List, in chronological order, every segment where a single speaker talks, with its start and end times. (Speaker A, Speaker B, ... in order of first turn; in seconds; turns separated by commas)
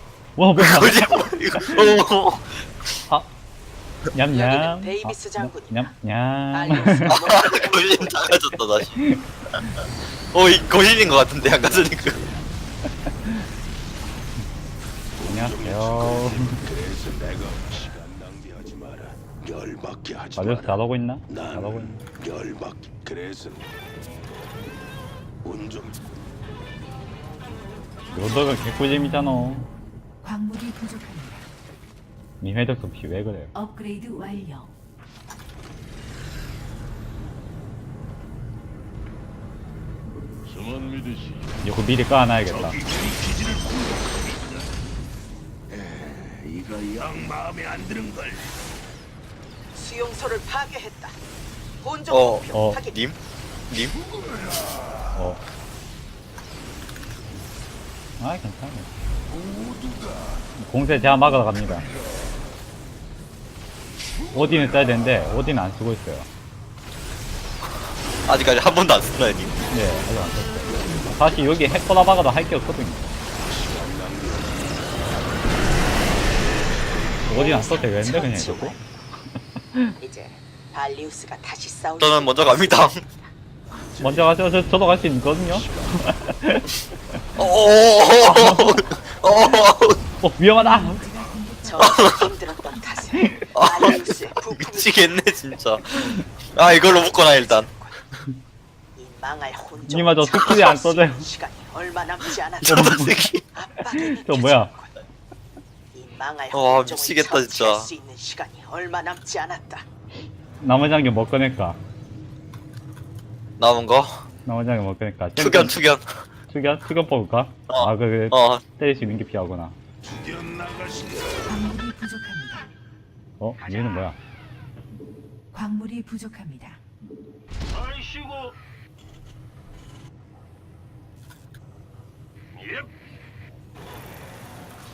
Speaker A: 0.4-2.0, Speaker B: 0.6-2.6, Speaker A: 4.1-7.2, Speaker C: 4.3-5.9, Speaker C: 6.5-8.3, Speaker B: 7.1-8.9, Speaker A: 8.9-9.7, Speaker B: 10.3-12.2, Speaker D: 10.4-12.5, Speaker D: 15.2-23.7, Speaker A: 15.2-16.6, Speaker A: 20.4-22.0, Speaker D: 25.4-26.2, Speaker A: 28.1-29.7, Speaker E: 30.2-31.5, Speaker A: 32.4-33.5, Speaker E: 33.5-34.7, Speaker F: 40.5-41.6, Speaker A: 41.6-42.8, Speaker F: 42.5-44.7, Speaker F: 45.7-48.5, Speaker C: 49.7-51.2, Speaker C: 51.8-53.0, Speaker B: 52.1-53.2, Speaker A: 52.5-52.8, Speaker B: 53.7-54.0, Speaker A: 55.1-55.4, Speaker A: 58.2-58.9, Speaker F: 59.4-60.1, Speaker A: 60.5-61.9, Speaker A: 64.3-66.3, Speaker B: 68.2-69.6, Speaker A: 69.7-73.2, Speaker D: 70.6-72.3, Speaker D: 73.4-77.6, Speaker A: 77.3-78.8, Speaker C: 77.3-78.8, Speaker C: 80.0-83.3, Speaker B: 82.0-83.0, Speaker D: 83.8-84.7, Speaker A: 84.0-86.7, Speaker D: 85.3-86.3, Speaker B: 87.4-90.0, Speaker A: 88.3-88.8, Speaker A: 90.2-91.0, Speaker E: 90.5-93.2, Speaker C: 91.6-95.4, Speaker B: 91.8-92.3, Speaker B: 93.5-97.7, Speaker C: 96.1-98.0, Speaker C: 99.0-105.0, Speaker A: 99.9-101.3, Speaker B: 102.6-103.4, Speaker A: 102.7-103.3, Speaker A: 103.9-104.7, Speaker C: 105.9-109.8, Speaker B: 106.5-107.9, Speaker A: 110.6-111.8, Speaker B: 113.6-114.2, Speaker A: 114.5-115.8, Speaker B: 115.4-116.0, Speaker A: 116.5-119.8, Speaker B: 117.7-118.6, Speaker F: 120.0-121.5, Speaker E: 121.5-122.7, Speaker A: 123.4-124.2, Speaker C: 123.6-124.1, Speaker E: 125.5-126.8